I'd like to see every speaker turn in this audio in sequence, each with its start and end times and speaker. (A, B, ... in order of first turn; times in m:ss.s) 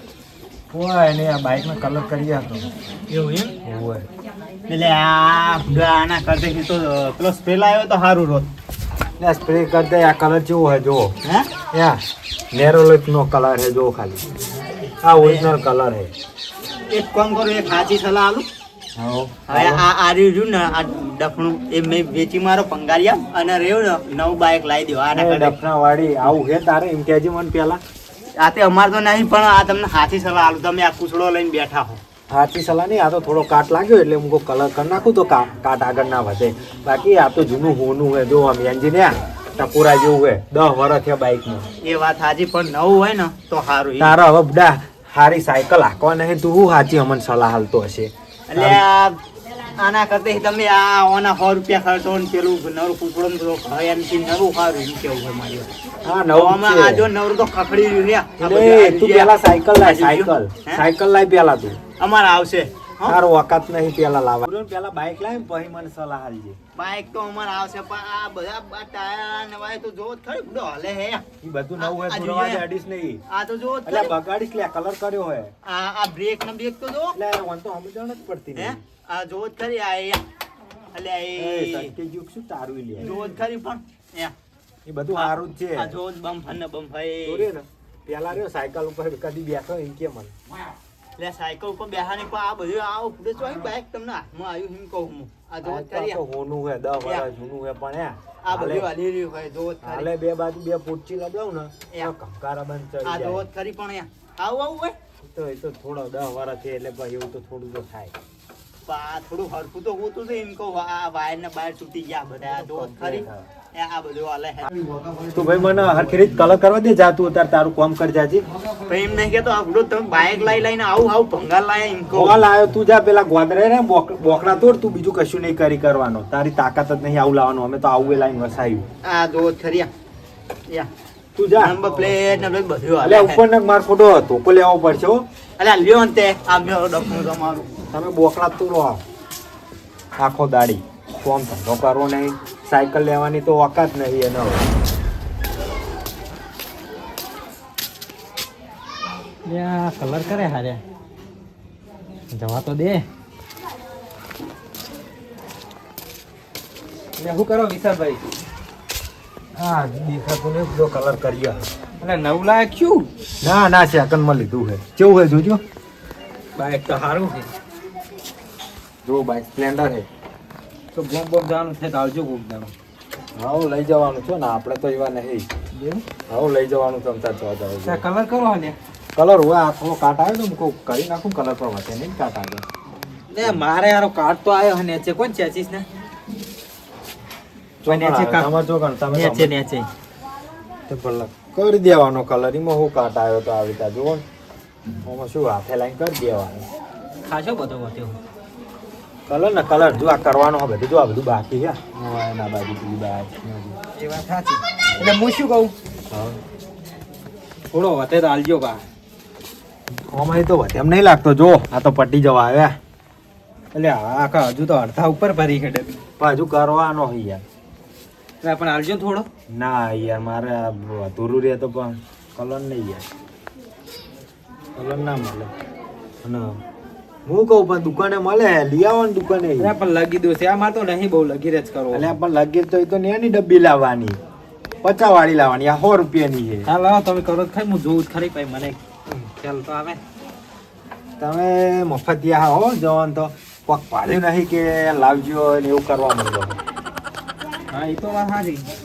0:00.7-0:02.7 A
0:03.1-0:03.6 B
0:03.6-0:04.1 A
0:04.7-0:08.5 B
0:09.2-0:11.1 A
0:11.2-0:11.6 B
0:11.7-0:12.0 A
0:12.5-0:14.2 A
0:15.0-0:16.1 A
0:15.2-0:15.6 B
0:16.9-0:18.4 B
0:19.0-0:19.9 A
0:19.5-0:25.6 B
0:25.1-0:27.8 A
0:28.4-0:32.0 B
0:32.3-0:41.7 A
0:41.8-0:44.2 B
0:44.0-0:48.8 A
0:48.5-0:49.2 B
0:49.7-0:55.7 B
0:56.0-0:57.1 A
0:56.4-1:00.9 B
0:58.4-1:01.8 A
1:02.0-1:03.2 B
1:03.0-1:06.6 A
1:06.8-1:11.2 B
1:11.4-1:13.2 A
1:11.8-1:12.7 B
1:13.3-1:14.2 B
1:13.9-1:15.5 A
1:15.6-1:17.2 B
1:17.1-1:18.8 A
1:18.6-1:20.2 B
1:20.9-1:22.0 B
1:21.4-1:23.2 A
1:23.0-1:24.3 B
1:24.9-1:26.0 A
1:25.1-1:27.5 B
1:27.2-1:30.3 A
1:31.2-1:36.2 B
1:35.6-1:38.9 A
1:37.0-1:37.2 B
1:38.4-1:40.1 B
1:39.8-1:43.5 A
1:41.9-1:42.1 B
1:43.0-1:45.0 B
1:45.2-1:48.1 A
1:48.9-1:54.7 B
1:52.5-1:53.4 A
1:55.3-1:58.4 A
1:58.8-2:02.5 B
2:02.1-2:08.8 A
2:09.0-2:09.9 B
2:11.4-2:11.8 A
2:11.6-2:13.5 B
2:13.0-2:15.2 A
2:15.6-2:17.7 B
2:17.9-2:19.0 A
2:20.2-2:24.7 A
2:29.4-2:30.8 C
2:32.3-2:33.1 C
2:37.2-2:38.2 C
2:39.6-2:41.7 A
2:42.0-2:43.1 C
2:43.4-2:45.6 A
2:46.6-2:47.5 C
2:49.0-2:50.1 A
2:50.9-2:52.7 C
2:53.4-2:55.5 A
2:55.7-2:56.0 C
2:56.3-2:58.0 A
2:57.8-2:58.8 C
2:59.2-3:02.6 A
3:03.3-3:05.8 C
3:07.8-3:09.5 A
3:07.8-3:08.5 C
3:09.1-3:09.9 C
3:10.9-3:14.2 A
3:15.0-3:16.6 A
3:17.2-3:18.2 C
3:19.3-3:23.8 A
3:24.0-3:25.7 C
3:26.1-3:26.4 A
3:27.7-3:28.8 C
3:30.0-3:32.8 A
3:33.7-3:36.0 C
3:36.2-3:37.4 A
3:38.4-3:39.3 C
3:39.5-3:43.0 A
3:44.8-3:45.5 A
3:46.2-3:46.6 A
3:47.2-3:49.8 A
3:49.6-3:52.1 C
3:51.9-3:54.2 A
3:54.8-3:56.7 A
3:56.6-4:00.0 C
4:01.2-4:06.6 A
4:07.7-4:08.7 C